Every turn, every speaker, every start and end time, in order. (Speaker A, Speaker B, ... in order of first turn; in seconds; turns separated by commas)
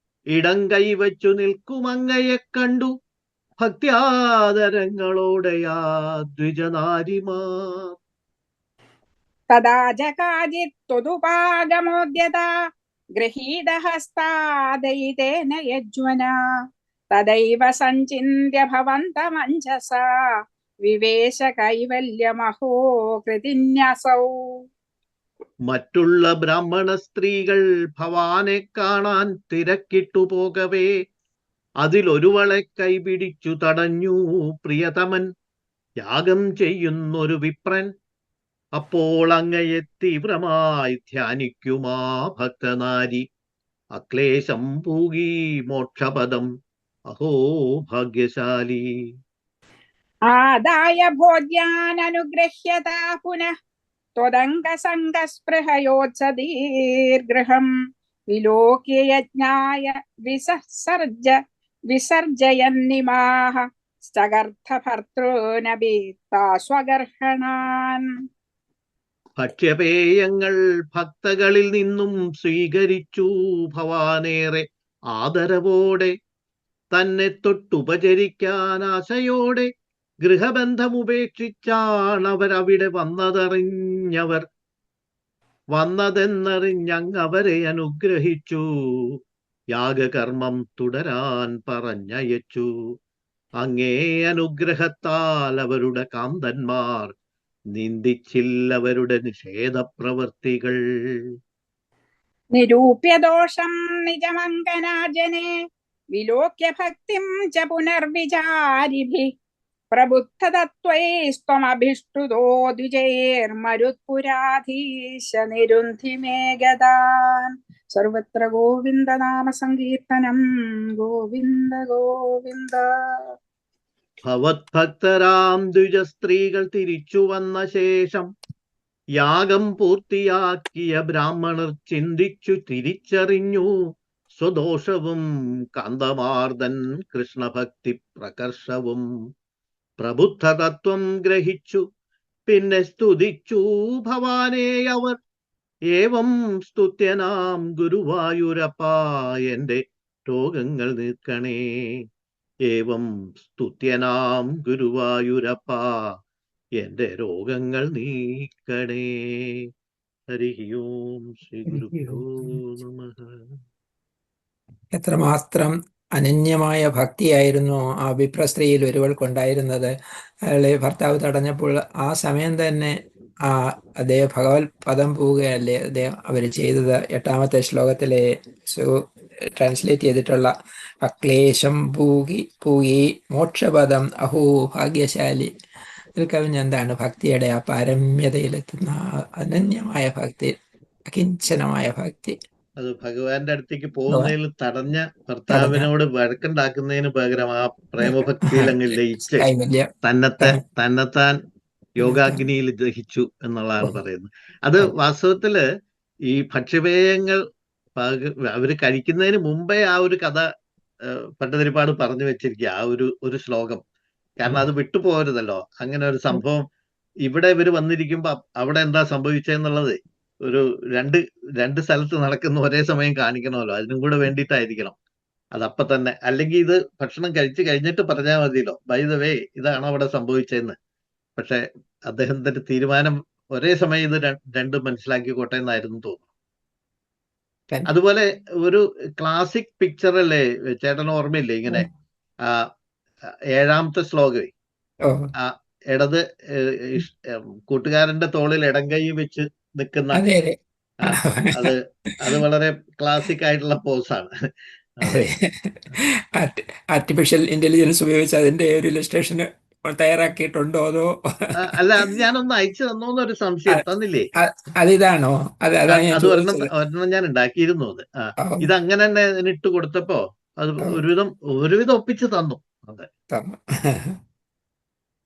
Speaker A: 0.3-2.9, Speaker A: 3.6-5.8, Speaker A: 6.3-7.9, Speaker B: 9.5-12.5, Speaker B: 13.2-16.3, Speaker B: 17.2-20.0, Speaker B: 20.9-22.7, Speaker B: 23.2-24.3, Speaker A: 25.7-30.9, Speaker A: 31.8-35.3, Speaker A: 36.0-37.9, Speaker A: 38.8-43.2, Speaker A: 44.0-46.5, Speaker A: 47.1-48.8, Speaker B: 50.3-53.5, Speaker B: 54.2-56.5, Speaker B: 57.3-57.7, Speaker B: 58.3-61.4, Speaker B: 61.9-63.6, Speaker B: 64.2-68.0, Speaker A: 69.4-76.1, Speaker A: 76.9-79.7, Speaker A: 80.2-84.4, Speaker A: 85.8-89.2, Speaker A: 89.7-92.7, Speaker A: 93.6-97.1, Speaker A: 97.8-101.2, Speaker B: 102.6-105.5, Speaker B: 106.2-109.3, Speaker B: 109.9-120.4, Speaker B: 121.0-122.8, Speaker A: 124.3-128.3, Speaker A: 129.2-133.7, Speaker A: 134.3-135.2, Speaker A: 135.8-139.0, Speaker A: 140.0-141.8, Speaker A: 142.5-145.2, Speaker A: 145.9-152.0, Speaker A: 152.7-156.1, Speaker A: 156.8-159.7, Speaker A: 160.3-163.4, Speaker C: 161.7-162.6, Speaker C: 164.9-169.9, Speaker C: 170.5-173.0, Speaker C: 173.5-178.9, Speaker C: 179.6-180.5, Speaker C: 181.0-185.5, Speaker C: 186.2-190.6, Speaker C: 191.1-192.4, Speaker A: 192.8-199.5, Speaker C: 195.5-195.9, Speaker C: 198.0-198.7, Speaker C: 199.3-199.9, Speaker A: 200.0-201.3, Speaker A: 202.0-205.6, Speaker C: 202.0-202.4, Speaker A: 206.3-207.4, Speaker A: 208.0-210.4, Speaker A: 211.1-213.8, Speaker A: 214.4-216.6, Speaker A: 217.2-219.9, Speaker A: 220.5-224.9, Speaker A: 225.6-230.7, Speaker A: 231.4-236.3, Speaker A: 237.9-241.9, Speaker A: 243.6-244.5, Speaker A: 245.4-250.2, Speaker C: 250.1-250.6, Speaker A: 251.0-254.3, Speaker C: 251.1-251.7, Speaker C: 255.1-255.8, Speaker C: 256.4-262.1, Speaker A: 261.6-264.3, Speaker C: 264.4-266.7, Speaker A: 265.9-273.1, Speaker C: 273.3-274.1